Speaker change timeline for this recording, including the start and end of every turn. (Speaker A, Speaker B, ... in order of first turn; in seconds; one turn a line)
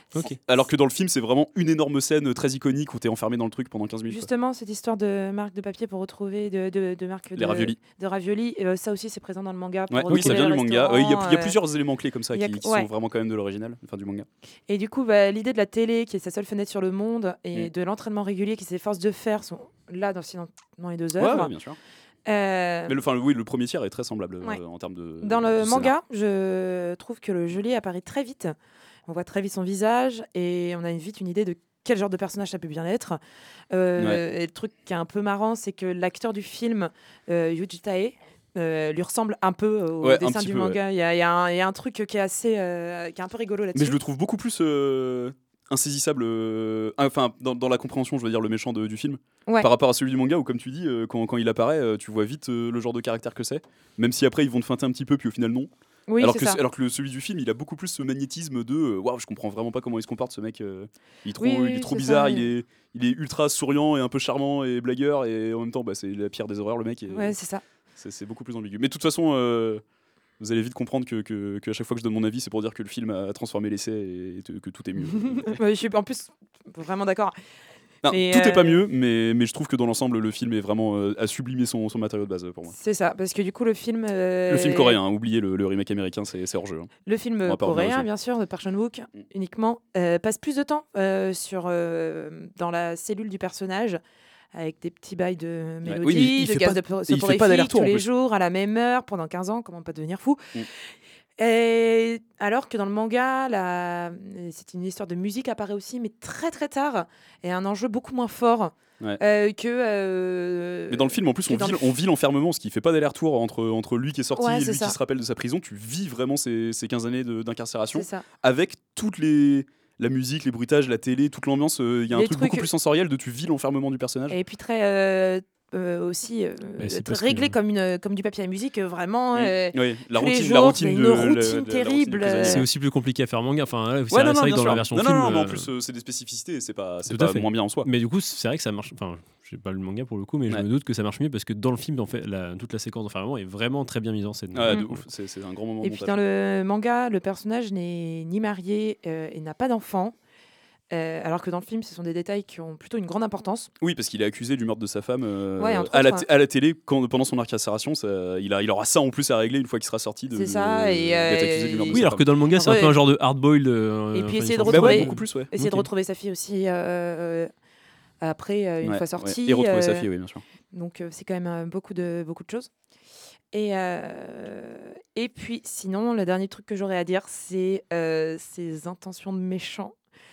Speaker A: 0.4-4.3
Speaker B: 4.1-11.6
Speaker A: 7.3-7.8
Speaker A: 9.9-14.3
Speaker C: 10.1-10.3
Speaker B: 12.3-12.9
Speaker B: 14.7-21.5
Speaker A: 21.2-21.8
Speaker B: 22.2-22.9
Speaker A: 22.9-25.9
Speaker B: 25.2-28.5
Speaker B: 29.1-33.2
Speaker B: 33.7-44.0
Speaker A: 34.0-34.2
Speaker A: 40.0-40.8
Speaker A: 43.7-67.4
Speaker B: 56.1-56.6
Speaker B: 61.4-62.5
Speaker B: 67.1-67.6
Speaker A: 68.0-69.8
Speaker A: 70.4-75.5
Speaker B: 75.2-77.3
Speaker A: 78.0-82.8
Speaker B: 78.0-78.8
Speaker B: 82.8-85.0
Speaker A: 84.5-86.9
Speaker B: 87.0-94.0
Speaker A: 87.4-88.1
Speaker B: 94.5-100.5
Speaker A: 95.8-98.0
Speaker C: 96.1-97.5
Speaker B: 101.4-111.9
Speaker A: 110.9-124.4
Speaker B: 114.3-115.0
Speaker B: 117.9-118.2
Speaker B: 122.1-122.7
Speaker B: 124.3-132.6
Speaker C: 126.8-127.5
Speaker A: 129.3-132.6
Speaker C: 132.4-135.7
Speaker A: 134.1-137.9
Speaker C: 137.1-145.0
Speaker A: 144.5-146.2
Speaker B: 145.8-150.1
Speaker B: 150.9-153.7
Speaker A: 153.8-162.2
Speaker B: 155.6-156.2
Speaker B: 160.3-162.0
Speaker C: 161.9-165.9
Speaker B: 162.6-163.0
Speaker B: 164.1-167.5
Speaker A: 164.7-165.5
Speaker B: 168.2-170.1
Speaker A: 168.8-170.4
Speaker B: 170.7-172.7
Speaker B: 173.5-179.9